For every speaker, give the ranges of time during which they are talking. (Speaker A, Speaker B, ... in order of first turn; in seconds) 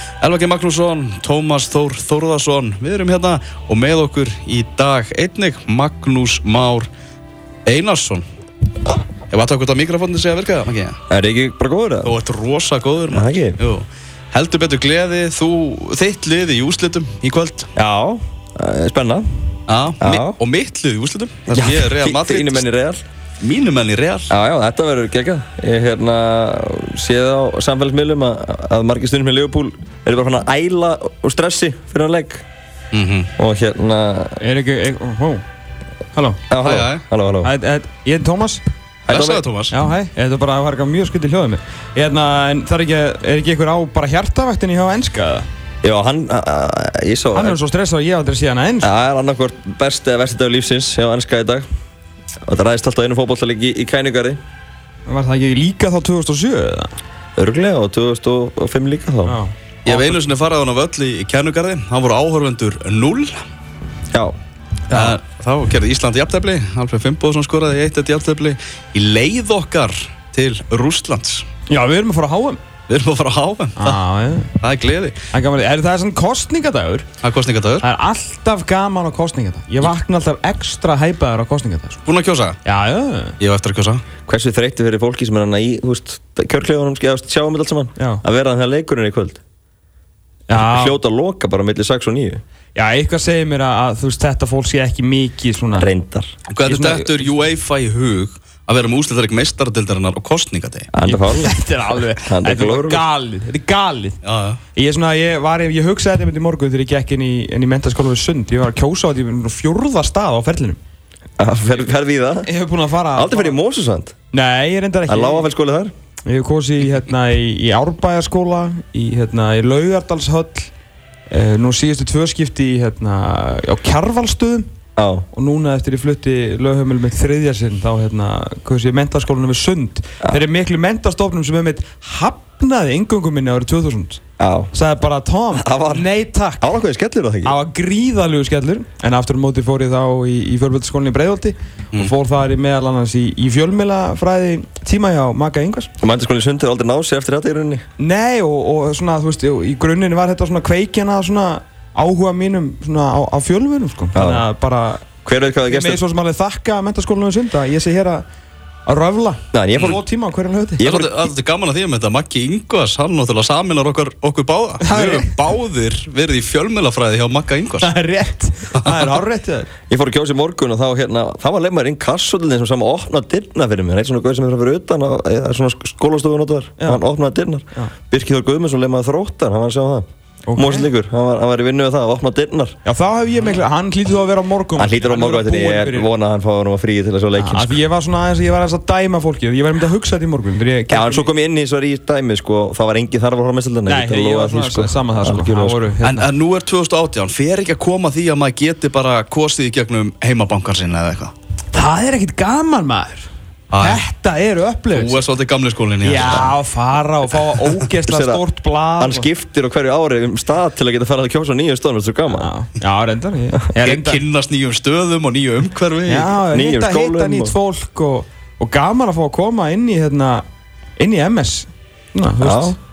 Speaker A: 0.2-6.9, 7.7-8.2, 9.3-11.0, 12.0-17.7, 19.7-22.6, 23.4-24.3, 32.9-33.3, 36.6-37.0, 39.1-39.7, 59.9-63.4, 64.9-71.5, 72.9-74.0, 74.6-75.2, 77.2-77.8, 82.0-82.6, 83.4-84.0, 96.5-100.9, 104.2-104.6, 160.8-167.9, 196.0-201.3, 203.7-204.0, 204.9-206.5, 213.8-216.3
Speaker B: 11.1-12.1, 13.1-13.6, 17.7-19.2, 20.0-20.4, 21.5-23.0, 24.3-32.4, 33.4-34.4, 36.5-37.5, 39.1-39.4, 45.8-47.6, 48.8-51.6, 52.4-54.4, 57.4-59.4, 84.3-89.4, 90.5-92.4, 95.8-96.3, 100.9-101.6, 102.2-103.0, 111.4-112.5, 113.1-114.1, 115.1-115.9, 125.0-125.2, 134.4-134.7, 135.5-136.0, 136.6-137.6, 146.0-147.8, 154.1-154.4, 155.2-156.0, 159.5-160.0, 160.8-161.1, 169.9-182.8, 184.8-187.8, 190.9-195.9, 208.1-208.4, 209.0-212.5, 216.5-217.5, 222.4-222.7
Speaker C: 34.4-35.4, 36.1-36.4, 37.4-38.6, 39.7-45.5, 47.3-48.9, 55.1-56.9, 59.2-60.2, 64.9-65.2, 71.7-72.6, 73.8-74.5, 75.3-77.1, 77.8-82.0, 82.6-83.4, 88.0-88.2, 90.5-91.0, 92.7-95.9, 96.6-97.2, 101.0-104.2, 104.7-110.8, 112.4-113.6, 114.3-115.5, 116.2-120.7, 121.3-124.7, 125.3-134.2, 134.7-136.7, 137.4-145.9, 148.0-155.1, 155.6-158.2, 158.9-160.9, 164.8-165.3, 167.8-169.7, 180.4-180.9, 182.8-186.1, 187.4-191.3, 193.8-196.3, 201.7-205.2, 206.0-209.3, 212.3-214.2, 216.1-220.4, 221.0-222.8